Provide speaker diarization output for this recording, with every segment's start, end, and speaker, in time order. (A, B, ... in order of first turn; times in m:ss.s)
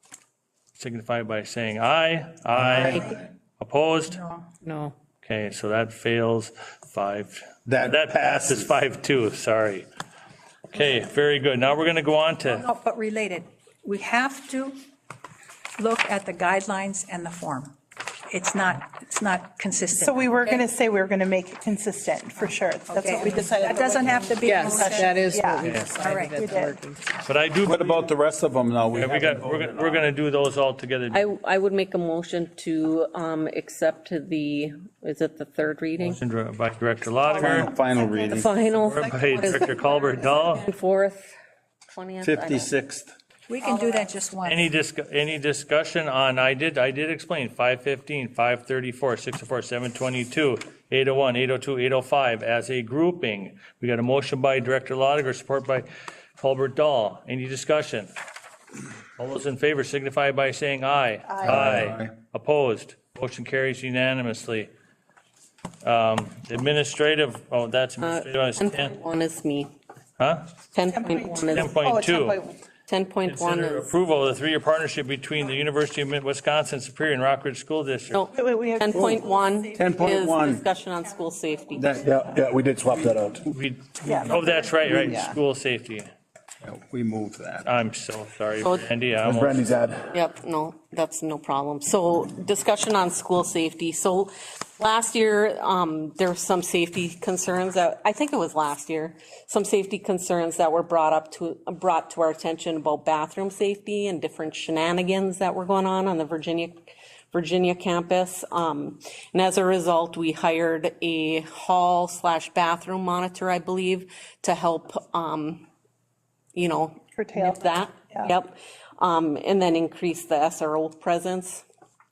0:00.8-0:04.2 A
0:02.5-0:03.2 B
0:04.1-0:04.4 C
0:05.2-0:09.9 A
0:07.6-0:08.8 B
0:10.7-0:12.7 A
0:12.4-0:14.8 C
0:15.8-0:17.7 C
0:18.3-0:20.6 C
0:19.9-0:26.8 D
0:22.9-0:26.5 C
0:24.4-0:27.1 E
0:25.6-0:26.0 A
0:27.2-0:28.1 A
0:27.6-0:30.1 B
0:28.9-0:31.2 A
0:31.1-0:36.2 F
0:36.0-0:37.7 A
0:37.4-0:38.5 B
0:37.4-0:40.2 D
0:38.0-0:41.2 F
0:38.8-0:40.6 A
0:41.9-0:42.7 F
0:42.2-0:43.1 B
0:43.5-0:44.7 C
0:43.7-0:44.1 D
0:44.4-0:58.1 A
0:59.2-1:04.7 A
1:01.2-1:01.8 D
1:01.4-1:02.1 B
1:05.8-1:09.0 A
1:08.0-1:09.7 F
1:10.2-1:10.5 A
1:10.7-1:11.7 F
1:10.9-1:12.6 D
1:11.5-1:12.4 A
1:12.9-1:13.9 F
1:13.3-1:18.2 A
1:18.1-1:22.0 F
1:18.3-1:20.4 D
1:18.9-1:19.2 B
1:19.7-1:20.6 B
1:21.8-1:22.2 B
1:22.0-1:23.4 G
1:23.5-1:26.1 A
1:24.0-1:25.4 D
1:26.6-1:27.7 B
1:27.6-1:29.7 A
1:28.6-1:28.9 F
1:29.2-1:30.1 G
1:30.1-1:46.8 F
1:47.3-1:55.6 F
1:56.5-2:01.6 F
1:57.2-1:58.3 D